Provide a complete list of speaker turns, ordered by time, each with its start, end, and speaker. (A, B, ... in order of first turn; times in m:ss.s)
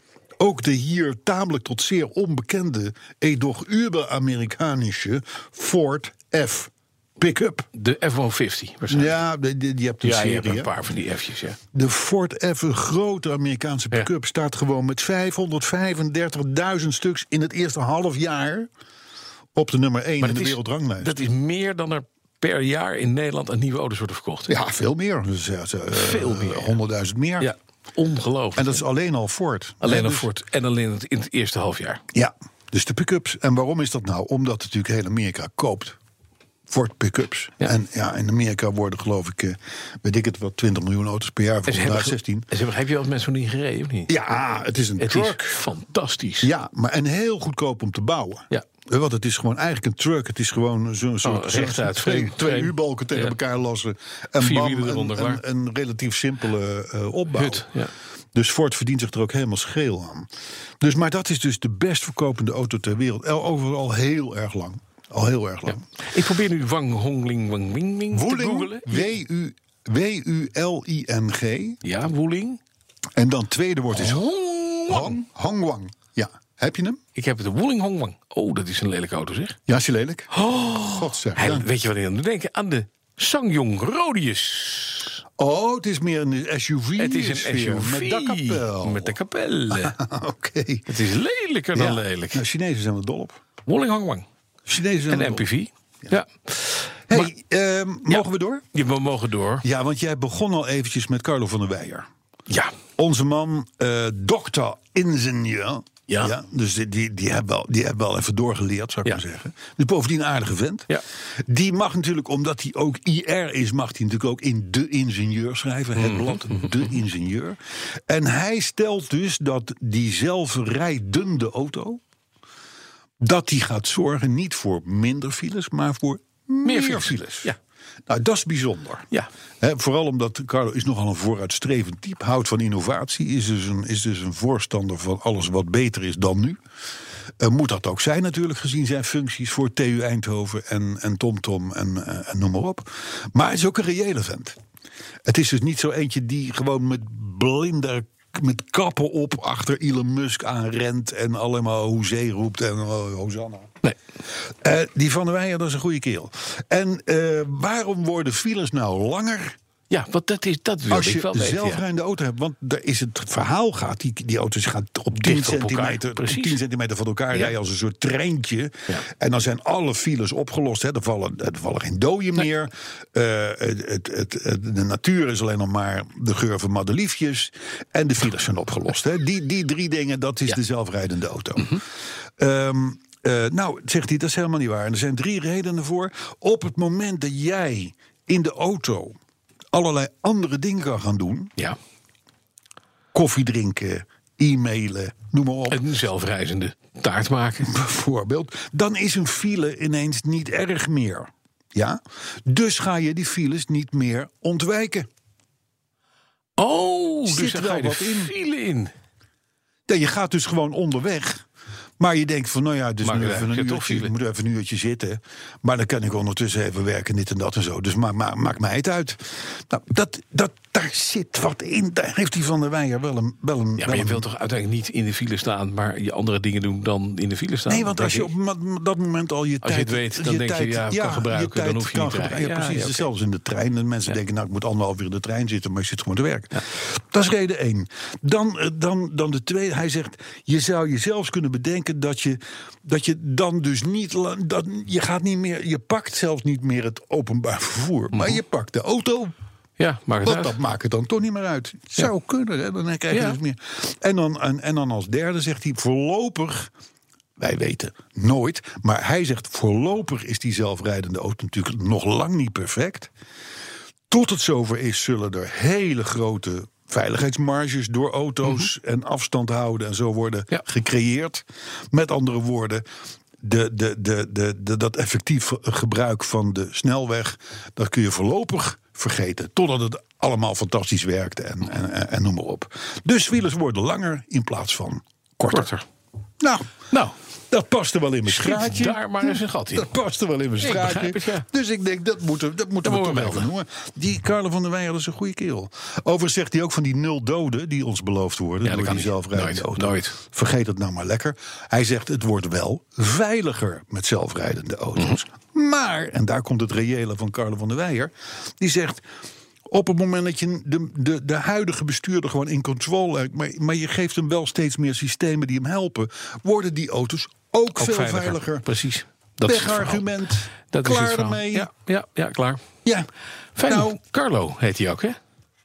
0:00.4-0:07.7 A
0:07.7-0:09.2 B
0:08.9-0:10.8 A
0:10.0-0:11.6 B
0:11.7-0:18.7 A
0:19.6-0:21.2 A
0:20.2-0:24.6 B
0:24.5-0:27.5 A
0:25.9-0:26.8 B
0:27.4-0:28.8 B
0:28.6-0:30.3 A
0:29.8-0:32.0 B
0:32.1-0:36.0 A
0:36.7-0:42.5 A
0:41.7-0:44.2 B
0:44.1-0:45.6 A
0:45.0-0:46.5 B
0:46.4-0:57.7 A
0:51.2-0:53.4 B
0:54.4-0:55.4 B
0:57.3-0:57.9 B
0:58.4-1:00.3 A
1:00.8-1:05.8 A
1:06.0-1:09.1 B
1:08.1-1:11.8 A
1:11.8-1:12.6 B
1:13.2-1:14.3 A
1:13.9-1:15.2 B
1:14.8-1:17.0 A
1:17.2-1:19.6 B
1:19.7-1:21.7 A
1:20.3-1:25.2 B
1:25.4-1:29.2 A
1:27.0-1:30.0 B
1:29.7-1:30.9 A
1:30.9-1:32.4 B
1:31.7-1:33.4 A
1:33.6-1:34.3 B
1:34.7-1:35.5 A
1:35.1-1:37.3 B
1:37.1-1:38.6 A
1:38.1-1:39.6 B
1:39.6-1:42.1 A
1:42.5-1:42.8 B
1:43.0-1:50.9 A
1:46.1-1:46.3 B
1:51.5-2:02.0 A
1:56.0-1:56.9 B
2:03.2-2:07.5 A
2:06.6-2:07.6 B
2:08.1-2:09.1 A
2:09.6-2:16.6 A
2:17.4-2:24.6 A
2:25.2-2:33.8 A
2:34.5-2:39.6 A
2:39.9-2:41.8 B
2:40.9-3:01.8 A
2:45.2-2:46.6 B
3:02.4-3:09.2 A
3:09.7-3:11.5 A
3:13.1-3:15.8 A
3:15.7-3:17.7 B
3:17.6-3:25.1 A
3:26.6-3:28.9 B
3:27.3-3:28.3 A
3:29.9-3:31.4 A
3:32.0-3:44.2 A
3:33.0-3:34.1 B
3:43.8-3:48.3 B
3:47.7-4:09.3 A
3:49.6-3:53.1 B
4:08.1-4:08.4 B
4:09.8-4:10.6 B
4:10.2-4:16.7 A
4:13.1-4:13.4 B
4:17.4-4:23.1 A
4:24.1-4:32.9 A
4:33.4-4:45.7 A
4:45.5-4:45.8 B
4:46.4-4:46.8 A
4:47.5-5:09.0 A
4:48.3-4:49.9 B
4:50.6-4:51.5 B
4:52.8-4:53.5 B
4:58.6-5:00.2 B
5:09.7-5:18.7 A
5:17.8-5:20.1 B
5:19.4-5:21.7 A
5:20.7-5:22.7 B
5:23.6-5:25.2 B
5:23.7-5:23.9 A